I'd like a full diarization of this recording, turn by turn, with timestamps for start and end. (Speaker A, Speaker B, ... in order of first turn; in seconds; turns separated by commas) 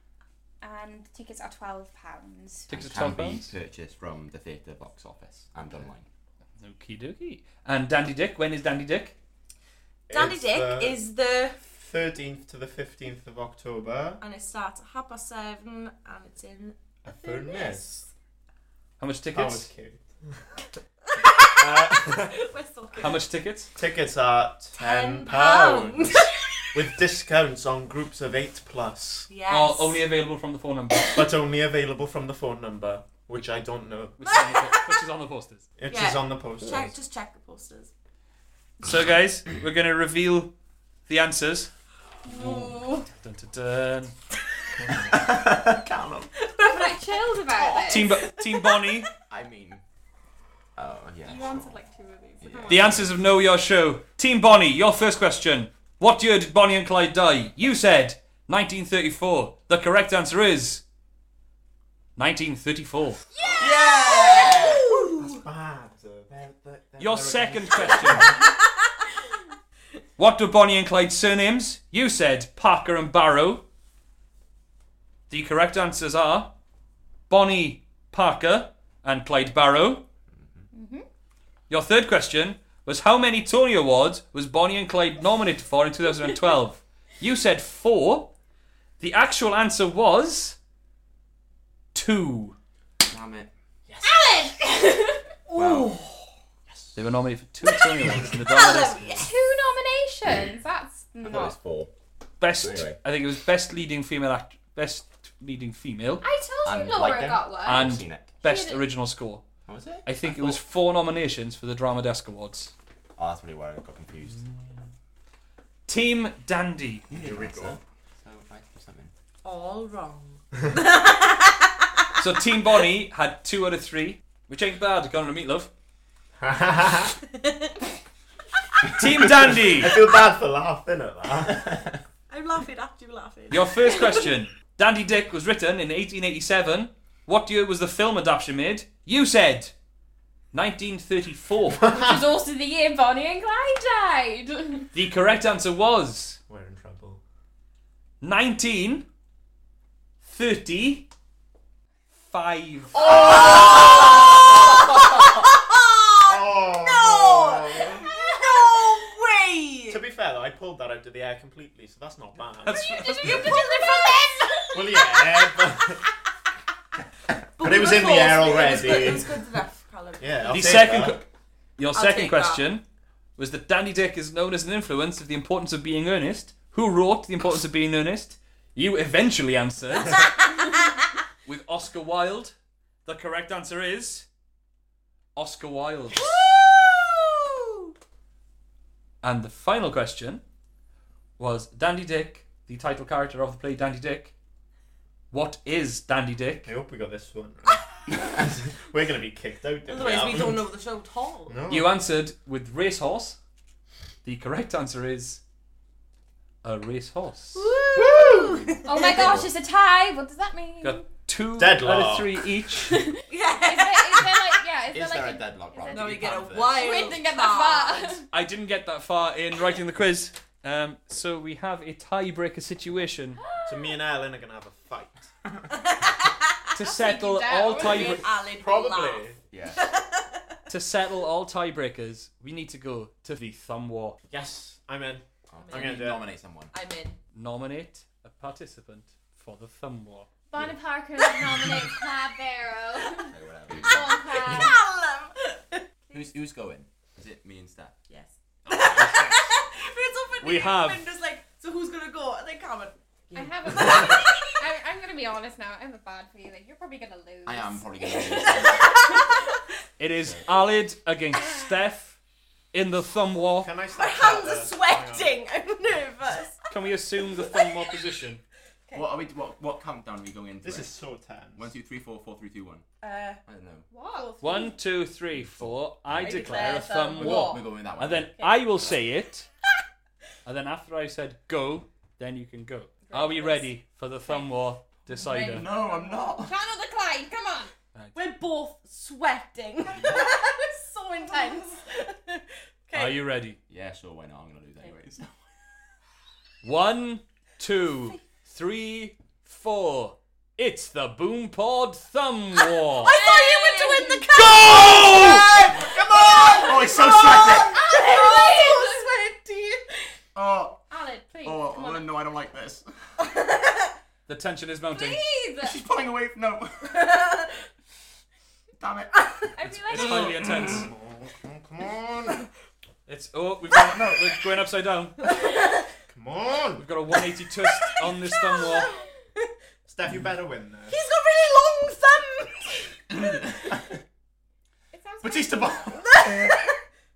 Speaker A: 0.6-2.7, Speaker B: 2.7-6.1, Speaker C: 2.7-3.5, Speaker C: 6.6-9.2, Speaker D: 10.1-11.0, Speaker E: 10.1-11.6, Speaker D: 11.6-14.2, Speaker E: 14.2-18.1, Speaker D: 17.0-18.1, Speaker C: 19.0-19.7, Speaker D: 19.3-20.4, Speaker E: 21.2-23.2, Speaker D: 21.6-22.4, Speaker C: 23.0-23.7, Speaker D: 23.8-29.3, Speaker E: 24.8-26.8, Speaker E: 29.3-30.1, Speaker C: 29.5-31.3, Speaker D: 31.1-34.2, Speaker C: 34.2-35.7, Speaker E: 34.2-35.0, Speaker D: 35.8-37.0, Speaker E: 35.9-37.9, Speaker C: 38.8-40.5, Speaker C: 41.1-41.7, Speaker E: 42.2-43.1, Speaker C: 42.3-44.2, Speaker D: 44.8-45.2, Speaker B: 45.1-46.3, Speaker E: 46.4-49.1, Speaker A: 46.6-48.1, Speaker C: 47.9-49.1, Speaker B: 49.3-49.8, Speaker B: 50.8-51.8, Speaker A: 51.2-53.1, Speaker B: 52.4-53.1, Speaker C: 52.7-60.8, Speaker C: 62.2-63.2, Speaker E: 63.5-65.4, Speaker B: 63.6-64.9, Speaker D: 65.2-68.5, Speaker C: 67.0-68.4, Speaker E: 67.8-68.8, Speaker C: 70.2-73.6, Speaker C: 75.3-76.5, Speaker C: 77.3-80.0, Speaker B: 80.3-80.7, Speaker A: 80.7-81.1, Speaker C: 81.7-88.3, Speaker C: 89.0-90.6, Speaker C: 91.9-92.6, Speaker B: 93.0-93.5, Speaker A: 94.0-95.2, Speaker E: 95.5-96.3, Speaker B: 95.5-96.0, Speaker C: 97.0-99.0, Speaker E: 97.6-99.3, Speaker A: 99.0-101.6, Speaker B: 101.2-101.9, Speaker C: 102.4-106.2, Speaker B: 102.5-103.0, Speaker A: 106.2-107.9, Speaker B: 106.7-108.3, Speaker C: 107.7-109.5, Speaker A: 108.4-108.8, Speaker B: 109.7-110.6, Speaker C: 110.0-112.7, Speaker B: 113.2-114.4, Speaker C: 115.9-117.1, Speaker B: 117.1-119.1, Speaker D: 117.1-117.8, Speaker E: 119.4-122.0, Speaker C: 122.2-125.7, Speaker D: 126.4-127.2, Speaker E: 127.3-127.7, Speaker C: 128.9-130.0, Speaker D: 129.5-131.8, Speaker E: 132.3-134.2, Speaker C: 133.5-139.7, Speaker C: 140.5-141.9, Speaker A: 141.9-144.9, Speaker C: 144.9-146.4, Speaker D: 146.5-147.2, Speaker C: 148.2-149.1, Speaker C: 150.2-151.1, Speaker C: 152.2-153.7, Speaker D: 152.9-154.8, Speaker E: 153.1-160.0, Speaker D: 156.3-158.1, Speaker D: 159.9-162.9, Speaker C: 162.7-163.7, Speaker A: 162.7-165.0, Speaker E: 163.2-165.7, Speaker D: 164.7-166.1, Speaker E: 167.6-171.0, Speaker D: 167.6-169.5, Speaker D: 170.2-171.2, Speaker C: 170.5-171.3, Speaker C: 171.8-172.8, Speaker E: 171.9-172.7, Speaker C: 173.4-180.7, Speaker C: 181.4-184.3, Speaker C: 185.3-186.3, Speaker E: 186.1-187.9, Speaker C: 189.2-190.4, Speaker C: 191.4-194.3, Speaker C: 195.3-196.7, Speaker D: 196.7-200.7, Speaker E: 199.9-201.6, Speaker D: 201.5-201.9, Speaker C: 201.7-203.4, Speaker C: 204.2-205.4, Speaker C: 206.6-207.7, Speaker E: 207.6-209.4, Speaker D: 207.9-208.8, Speaker A: 208.8-211.1, Speaker C: 210.8-213.1, Speaker D: 211.6-212.3, Speaker A: 212.8-218.3, Speaker E: 213.3-214.5, Speaker B: 214.9-217.0, Speaker E: 215.9-218.2, Speaker C: 218.3-223.4, Speaker A: 223.4-223.9, Speaker D: 223.7-225.3, Speaker E: 225.7-230.6, Speaker C: 226.8-228.3, Speaker D: 228.4-229.4, Speaker B: 229.5-229.9, Speaker C: 230.7-234.2, Speaker D: 234.3-236.2, Speaker B: 235.5-236.7, Speaker E: 235.7-236.1, Speaker E: 236.7-237.2, Speaker A: 236.8-237.1, Speaker C: 237.3-240.3, Speaker A: 240.5-244.7, Speaker B: 243.2-244.1, Speaker E: 243.8-246.2, Speaker B: 246.1-247.9, Speaker E: 248.1-254.7, Speaker D: 248.7-249.4, Speaker C: 249.0-249.3, Speaker C: 250.4-251.1, Speaker A: 253.3-259.3, Speaker B: 257.5-259.1, Speaker E: 258.1-259.6, Speaker C: 260.0-262.2, Speaker C: 262.7-263.7, Speaker D: 263.6-265.4, Speaker E: 263.9-266.7, Speaker C: 266.7-268.4, Speaker E: 267.4-268.0, Speaker B: 268.9-270.9, Speaker D: 270.6-271.7, Speaker B: 271.6-272.9, Speaker E: 273.0-273.4, Speaker B: 273.5-273.9, Speaker A: 273.9-274.3, Speaker E: 274.1-274.7, Speaker C: 274.4-279.5, Speaker B: 275.4-278.3, Speaker E: 276.1-277.6, Speaker E: 278.4-278.6, Speaker C: 280.4-285.7, Speaker A: 283.1-283.7, Speaker E: 285.1-286.3, Speaker B: 285.4-286.5, Speaker A: 286.3-287.7, Speaker E: 288.1-293.2, Speaker C: 292.9-293.6, Speaker B: 293.7-295.4, Speaker C: 296.6-303.1, Speaker E: 302.9-310.1, Speaker A: 303.0-304.3, Speaker C: 304.3-305.4, Speaker D: 304.9-306.8, Speaker A: 306.4-309.1, Speaker B: 306.6-307.8, Speaker B: 310.4-310.8, Speaker A: 310.9-312.1, Speaker B: 311.4-312.9, Speaker E: 313.2-313.9, Speaker C: 314.3-315.2, Speaker A: 314.9-315.8, Speaker B: 315.6-317.1, Speaker E: 316.9-317.6, Speaker B: 318.8-320.9, Speaker A: 319.6-320.4, Speaker C: 319.9-320.9, Speaker D: 320.4-322.5, Speaker C: 323.1-325.3, Speaker E: 325.3-325.8, Speaker D: 326.1-326.9, Speaker C: 326.8-328.9, Speaker E: 327.7-329.4, Speaker D: 329.9-331.0, Speaker E: 330.9-332.9, Speaker B: 333.1-334.0, Speaker A: 334.9-336.0, Speaker B: 335.2-336.5, Speaker E: 336.0-336.8